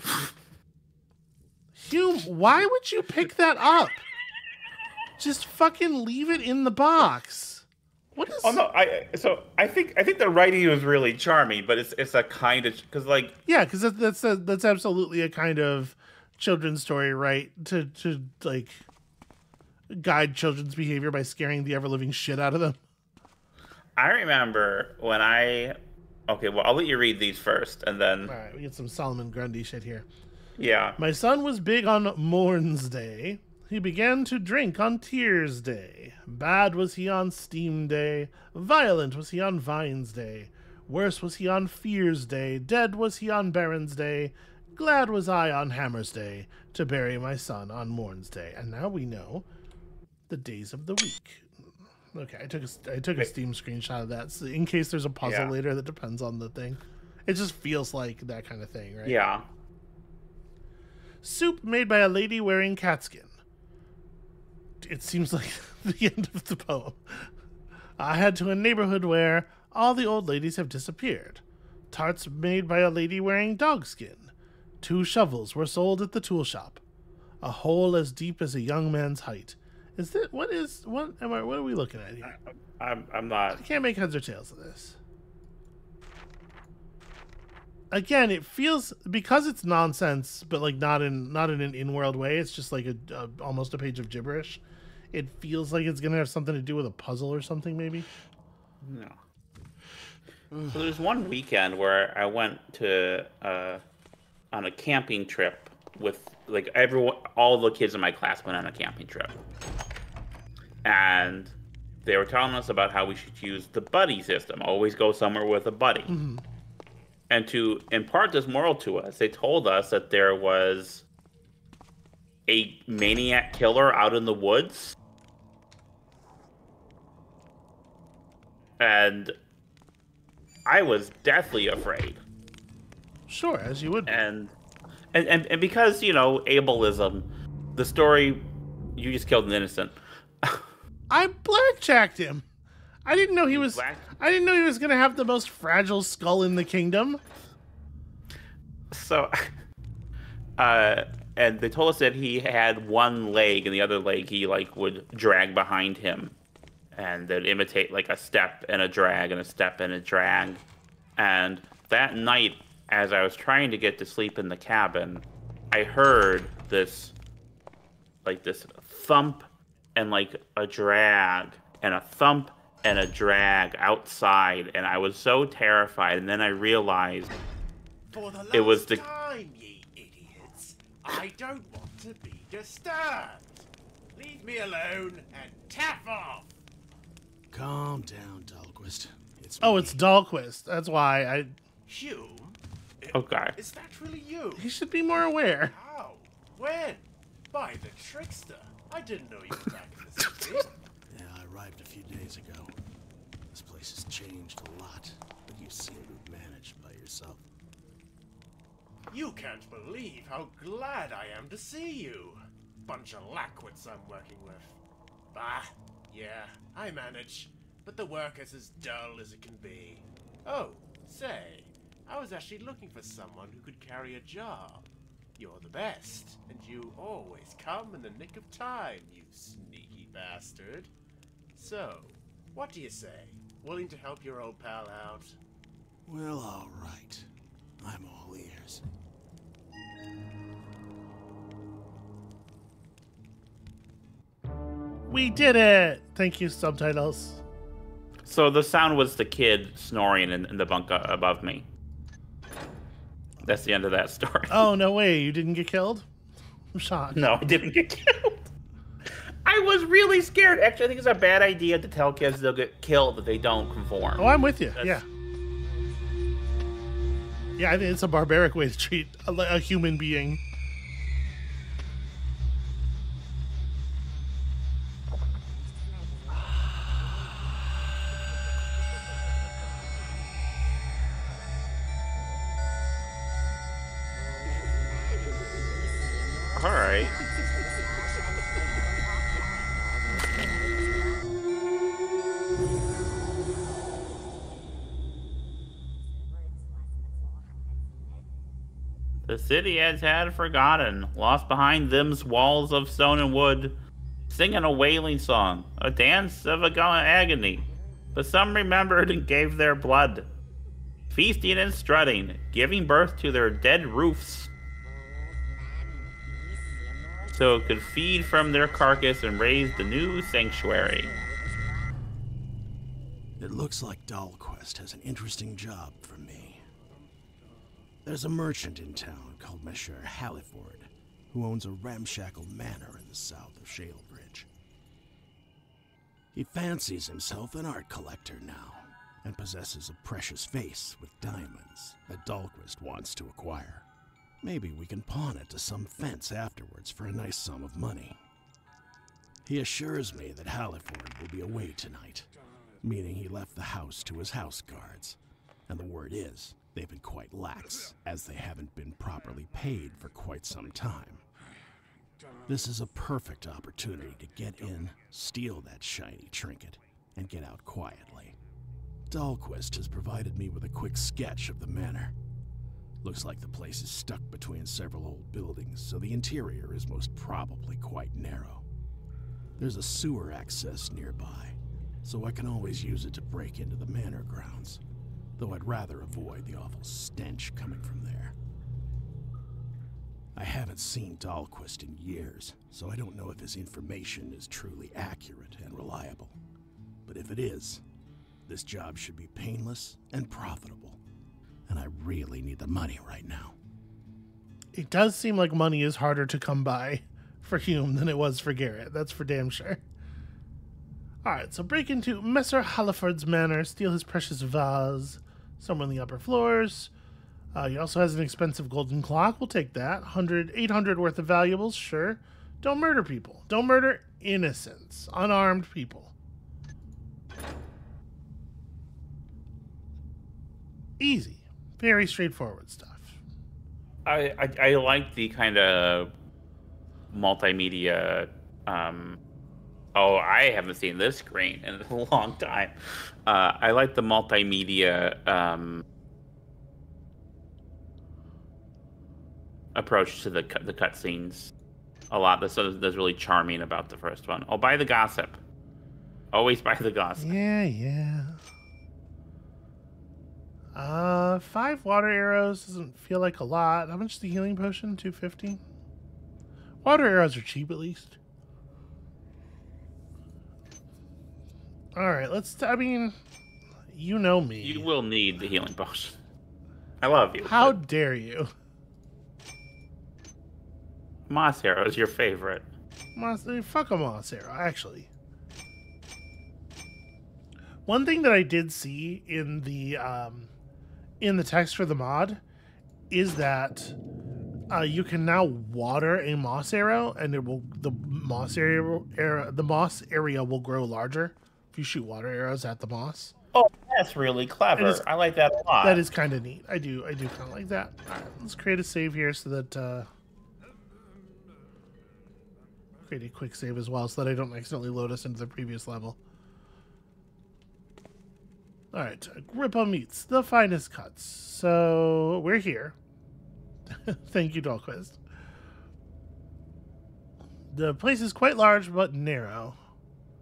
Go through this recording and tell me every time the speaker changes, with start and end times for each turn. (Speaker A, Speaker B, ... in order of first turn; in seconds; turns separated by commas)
Speaker A: 1.8-4.0, Speaker A: 5.2-8.6, Speaker B: 8.4-13.4, Speaker A: 13.4-18.8, Speaker A: 19.9-22.8, Speaker B: 24.0-28.3, Speaker A: 28.2-30.1, Speaker B: 30.6-31.0, Speaker A: 31.0-49.5, Speaker A: 50.3-51.5, Speaker A: 52.1-59.2, Speaker B: 55.2-55.5, Speaker B: 59.0-59.5, Speaker A: 61.2-63.3, Speaker A: 64.8-67.3, Speaker A: 68.0-76.8, Speaker A: 77.4-82.3, Speaker B: 82.3-83.6, Speaker A: 83.5-85.0, Speaker A: 87.9-98.1, Speaker B: 98.8-99.2, Speaker B: 100.6-103.8, Speaker B: 104.5-109.3, Speaker B: 110.8-116.1, Speaker A: 116.1-116.4, Speaker B: 117.3-121.0, Speaker B: 122.5-124.9, Speaker B: 128.8-129.3, Speaker B: 130.7-132.2, Speaker A: 133.3-134.2, Speaker B: 134.1-134.5, Speaker B: 135.1-140.7, Speaker A: 141.1-142.4, Speaker A: 143.0-147.2, Speaker B: 143.5-144.1, Speaker B: 148.9-149.5, Speaker B: 150.6-156.3, Speaker B: 156.9-160.6, Speaker B: 161.2-167.1, Speaker B: 168.2-177.3, Speaker C: 178.1-186.5, Speaker B: 178.5-179.0, Speaker D: 187.5-190.0, Speaker A: 189.6-191.5, Speaker C: 191.8-194.7, Speaker B: 193.1-193.6, Speaker A: 194.6-195.7, Speaker C: 195.6-200.7, Speaker D: 201.1-202.7, Speaker D: 203.5-207.4, Speaker C: 209.1-214.8, Speaker C: 215.3-230.9, Speaker C: 231.5-235.3, Speaker D: 236.1-237.3, Speaker D: 237.8-238.8, Speaker A: 245.1-247.4, Speaker B: 248.2-251.7, Speaker B: 253.4-254.7, Speaker A: 254.5-256.1, Speaker A: 256.7-257.3, Speaker B: 257.1-258.5, Speaker B: 259.4-265.0, Speaker A: 264.2-265.0, Speaker A: 267.6-270.4, Speaker B: 286.5-287.1, Speaker B: 299.3-303.8, Speaker B: 304.3-310.3, Speaker B: 311.1-314.5, Speaker B: 317.3-321.1, Speaker D: 323.4-326.6, Speaker D: 328.0-334.5, Speaker D: 336.3-343.9, Speaker D: 344.4-348.2, Speaker D: 349.4-352.3, Speaker D: 352.8-361.2, Speaker D: 362.5-368.4, Speaker D: 369.1-372.1, Speaker D: 373.0-378.6, Speaker D: 379.6-384.8, Speaker D: 385.4-388.3, Speaker D: 390.3-396.4, Speaker D: 397.1-397.8, Speaker D: 398.5-401.0, Speaker D: 401.7-403.6, Speaker A: 404.7-409.8, Speaker A: 411.2-416.9, Speaker A: 417.5-426.1, Speaker A: 431.0-433.2, Speaker B: 434.0-436.1, Speaker B: 437.1-439.2, Speaker B: 439.9-445.8, Speaker B: 449.7-451.5, Speaker B: 452.1-455.4, Speaker B: 456.3-457.3, Speaker A: 457.2-458.4, Speaker A: 460.7-465.6, Speaker A: 466.8-468.2, Speaker A: 471.9-473.1, Speaker A: 473.9-474.9, Speaker B: 474.6-476.2, Speaker B: 477.0-477.8, Speaker A: 477.4-478.5, Speaker B: 481.3-482.6, Speaker A: 483.1-485.1, Speaker A: 487.9-490.5, Speaker A: 491.2-492.4, Speaker A: 493.1-493.9, Speaker A: 494.7-503.3, Speaker B: 503.5-506.0, Speaker A: 504.8-505.0, Speaker A: 505.8-510.1, Speaker A: 513.0-516.2, Speaker A: 518.9-522.9, Speaker A: 523.9-525.2, Speaker A: 527.7-529.8